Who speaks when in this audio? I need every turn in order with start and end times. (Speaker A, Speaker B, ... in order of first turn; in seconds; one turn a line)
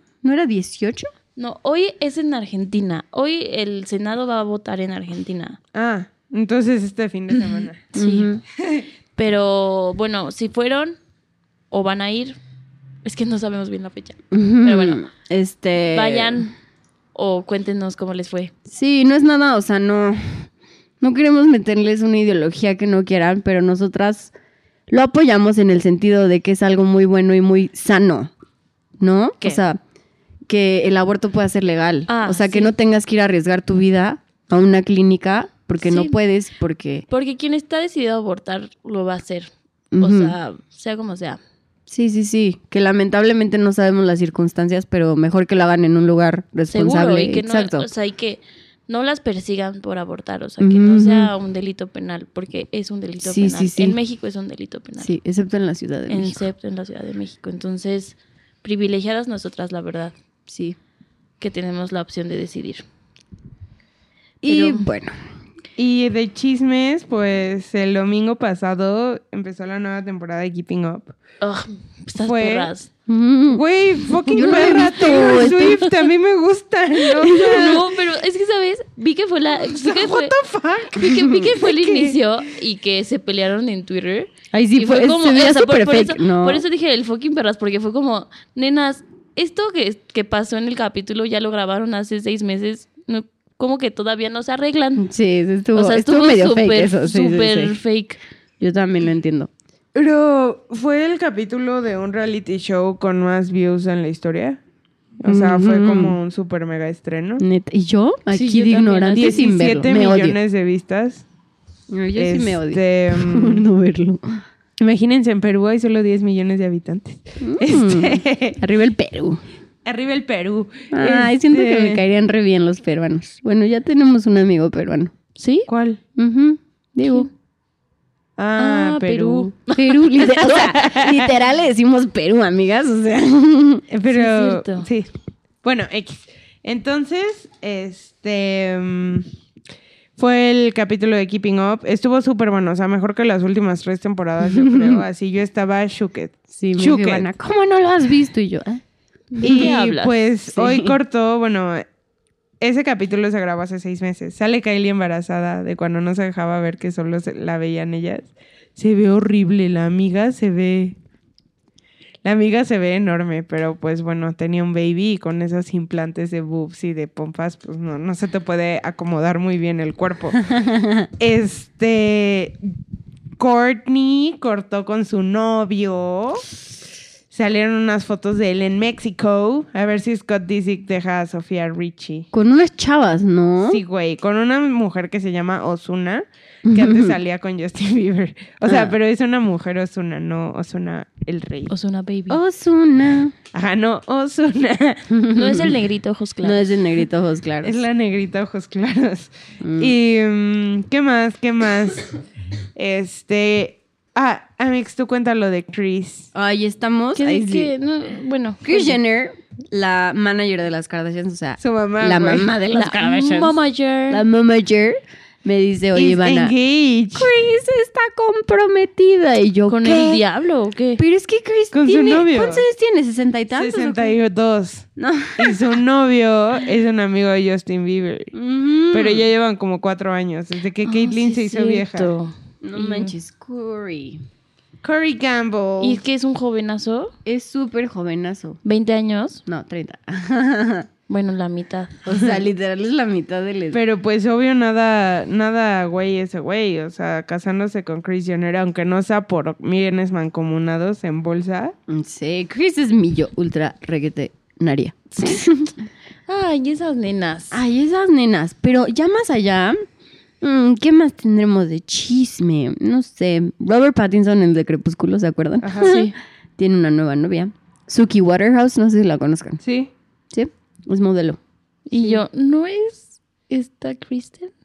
Speaker A: 0.2-1.1
Speaker B: 1.4-5.6
Speaker C: 5.7-7.9
Speaker B: 7.5-8.3
Speaker A: 8.0-8.4
Speaker B: 9.2-11.0
Speaker B: 11.7-12.4
Speaker B: 13.0-15.0
Speaker A: 14.3-16.5
Speaker B: 15.9-16.5
Speaker B: 17.1-18.5
Speaker A: 18.7-20.5
Speaker A: 21.0-24.3
Speaker A: 24.9-28.3
Speaker A: 29.0-29.8
Speaker A: 30.5-37.0
Speaker B: 32.1-32.7
Speaker B: 35.8-36.2
Speaker B: 37.1-41.4
Speaker A: 39.9-40.4
Speaker A: 41.9-47.9
Speaker B: 46.7-55.1
Speaker A: 50.6-51.3
Speaker A: 53.2-54.0
Speaker A: 55.0-56.4
Speaker B: 56.1-60.1
Speaker A: 60.5-60.8
Speaker B: 61.4-62.8
Speaker A: 64.4-65.2
Speaker B: 64.5-64.9
Speaker C: 65.8-71.1
Speaker B: 71.4-72.9
Speaker C: 72.2-72.7
Speaker A: 73.1-73.6
Speaker C: 73.5-77.9
Speaker A: 74.3-75.9
Speaker B: 74.3-75.8
Speaker B: 77.2-80.3
Speaker C: 79.7-82.2
Speaker B: 80.9-95.1
Speaker A: 84.5-86.6
Speaker A: 95.0-97.8
Speaker B: 95.8-98.2
Speaker A: 98.6-99.5
Speaker C: 100.0-104.6
Speaker C: 105.2-107.4
Speaker A: 105.2-106.2
Speaker A: 107.4-110.4
Speaker B: 108.3-109.5
Speaker C: 109.1-111.2
Speaker A: 111.9-114.4
Speaker C: 112.2-113.7
Speaker C: 114.8-118.6
Speaker A: 117.4-119.4
Speaker C: 119.8-122.0
Speaker A: 120.9-125.1
Speaker B: 125.4-125.7
Speaker C: 125.7-126.0
Speaker A: 126.2-127.3
Speaker C: 128.4-129.6
Speaker B: 128.6-130.3
Speaker A: 129.7-133.8
Speaker C: 130.5-131.3
Speaker C: 133.9-135.1
Speaker B: 134.1-134.9
Speaker C: 135.6-139.3
Speaker C: 140.2-147.3
Speaker A: 144.4-145.0
Speaker A: 146.5-148.8
Speaker B: 149.3-150.2
Speaker C: 149.4-151.8
Speaker A: 149.4-149.8
Speaker A: 150.5-151.0
Speaker C: 152.6-161.0
Speaker C: 162.2-170.4
Speaker A: 170.5-171.1
Speaker C: 171.2-172.6
Speaker C: 173.4-176.5
Speaker C: 177.3-182.3
Speaker A: 182.3-183.8
Speaker C: 183.7-191.7
Speaker A: 186.7-187.2
Speaker A: 188.7-188.9
Speaker B: 191.7-192.4
Speaker A: 192.3-193.3
Speaker C: 193.5-195.1
Speaker A: 195.1-195.8
Speaker B: 195.3-196.8
Speaker A: 196.4-197.8
Speaker C: 197.6-202.2
Speaker A: 199.6-199.9
Speaker C: 202.8-206.3
Speaker A: 206.3-207.7
Speaker B: 207.2-209.0
Speaker A: 208.6-213.6
Speaker C: 211.6-212.5
Speaker B: 212.7-214.2
Speaker A: 214.1-216.5
Speaker C: 215.9-217.3
Speaker A: 217.2-220.2
Speaker B: 219.7-221.0
Speaker A: 221.0-224.2
Speaker C: 221.7-222.7
Speaker C: 223.5-228.3
Speaker A: 225.0-225.8
Speaker A: 228.3-229.3
Speaker C: 228.9-232.1
Speaker B: 230.8-233.1
Speaker A: 232.6-234.2
Speaker C: 234.8-236.0
Speaker B: 235.8-237.1
Speaker A: 237.3-238.6
Speaker B: 238.6-239.4
Speaker A: 239.5-240.9
Speaker B: 241.1-242.0
Speaker A: 242.1-243.8
Speaker C: 242.1-242.4
Speaker C: 243.7-251.7
Speaker A: 251.9-255.7
Speaker B: 255.1-255.4
Speaker B: 256.3-257.6
Speaker A: 257.5-259.8
Speaker A: 260.4-269.6
Speaker C: 265.6-266.0
Speaker B: 265.8-266.1
Speaker C: 269.6-269.9
Speaker A: 270.3-271.4
Speaker B: 271.9-274.5